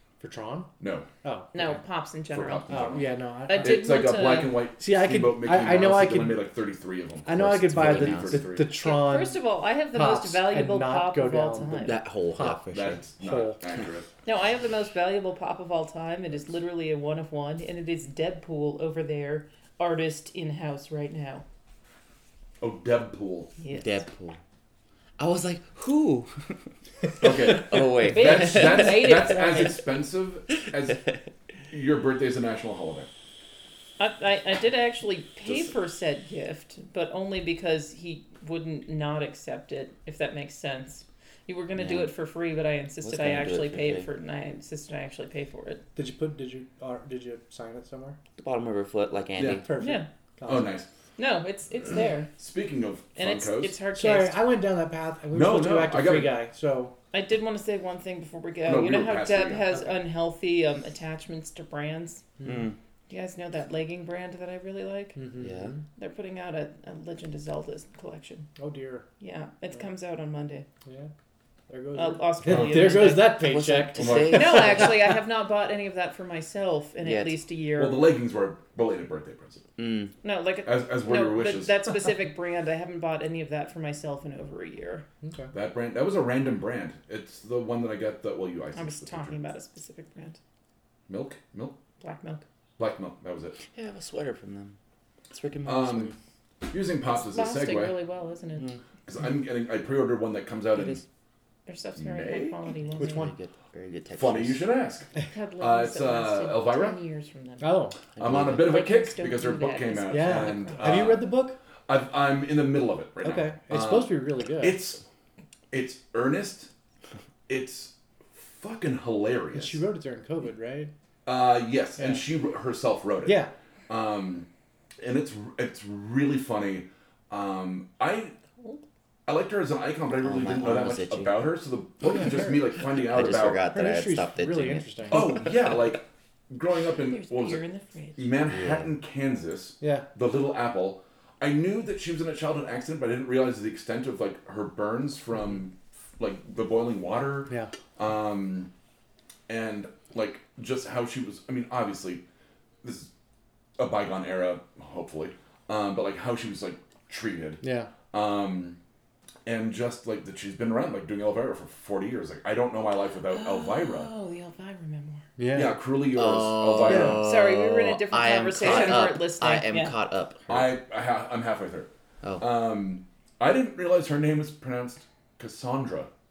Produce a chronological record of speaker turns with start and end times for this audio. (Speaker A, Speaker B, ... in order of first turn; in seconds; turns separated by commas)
Speaker A: 0.2-0.7, Speaker B: 0.8-1.1, Speaker A: 1.2-1.5, Speaker C: 1.5-2.8, Speaker B: 2.3-8.7, Speaker A: 2.7-3.8, Speaker C: 3.5-4.7, Speaker A: 4.8-6.5, Speaker A: 7.3-9.4, Speaker D: 7.6-8.5, Speaker C: 8.8-12.0, Speaker A: 9.9-13.6, Speaker D: 11.8-13.0, Speaker B: 12.7-14.1, Speaker C: 14.2-21.4, Speaker B: 22.6-23.5, Speaker C: 23.6-24.0, Speaker D: 23.7-24.4, Speaker D: 25.2-26.6, Speaker D: 27.2-29.4, Speaker B: 27.2-31.1, Speaker C: 28.1-29.8, Speaker B: 31.7-33.1, Speaker C: 34.0-45.8, Speaker B: 35.5-35.7, Speaker D: 41.8-42.1, Speaker D: 43.0-44.1, Speaker A: 46.0-48.2, Speaker D: 48.4-49.6, Speaker B: 49.4-49.7, Speaker A: 49.6-50.8, Speaker C: 49.8-50.1, Speaker B: 50.5-50.9, Speaker C: 51.2-52.3, Speaker B: 52.4-53.8, Speaker C: 53.2-54.4, Speaker A: 53.9-57.0, Speaker B: 55.3-56.3, Speaker C: 57.1-62.2, Speaker B: 58.7-59.9, Speaker A: 62.4-62.7, Speaker D: 62.5-62.8, Speaker C: 63.1-65.2, Speaker A: 65.2-65.8, Speaker D: 65.4-65.8, Speaker C: 66.0-68.5, Speaker A: 68.6-69.1, Speaker C: 69.2-70.7, Speaker A: 70.9-71.1, Speaker A: 71.7-75.0, Speaker C: 72.0-73.5, Speaker D: 72.9-75.0, Speaker B: 74.0-74.8, Speaker C: 74.3-78.0, Speaker D: 77.0-77.3, Speaker B: 77.8-79.6, Speaker D: 79.8-80.1, Speaker C: 80.2-85.0, Speaker B: 80.7-81.8, Speaker A: 85.2-85.5, Speaker B: 85.5-89.4, Speaker C: 88.7-90.4, Speaker B: 91.1-91.8, Speaker C: 92.0-92.4, Speaker B: 92.8-93.6, Speaker D: 93.7-94.8, Speaker D: 95.3-96.2, Speaker B: 95.7-96.1, Speaker B: 96.7-98.0, Speaker C: 97.1-98.7, Speaker B: 99.0-101.0, Speaker D: 100.7-101.0, Speaker C: 101.7-103.3, Speaker B: 102.0-102.7, Speaker A: 103.0-103.3, Speaker D: 103.0-104.7, Speaker B: 104.1-107.0, Speaker C: 105.3-111.1, Speaker A: 107.6-108.0, Speaker D: 108.2-108.7, Speaker B: 108.2-111.3, Speaker A: 110.1-111.6, Speaker B: 111.9-115.0, Speaker A: 113.2-114.8, Speaker B: 115.7-116.7, Speaker B: 117.5-119.8, Speaker A: 119.5-120.9, Speaker B: 121.2-128.3, Speaker A: 122.0-122.2, Speaker A: 123.2-123.5, Speaker B: 129.3-133.6, Speaker D: 130.2-131.4, Speaker A: 132.1-132.8, Speaker D: 132.8-135.4, Speaker A: 133.7-135.5, Speaker B: 135.1-137.6, Speaker C: 137.1-138.3, Speaker B: 138.2-148.7, Speaker D: 138.5-138.9, Speaker A: 139.8-140.1, Speaker B: 149.5-152.2, Speaker B: 152.8-153.1, Speaker B: 153.8-158.8, Speaker A: 157.6-157.9, Speaker B: 159.5-164.1, Speaker C: 163.3-165.2, Speaker A: 165.4-165.8, Speaker B: 165.5-167.2, Speaker D: 166.1-170.7, Speaker A: 166.8-167.2, Speaker C: 167.2-169.9, Speaker B: 168.7-168.9, Speaker B: 170.5-171.9, Speaker B: 172.4-176.1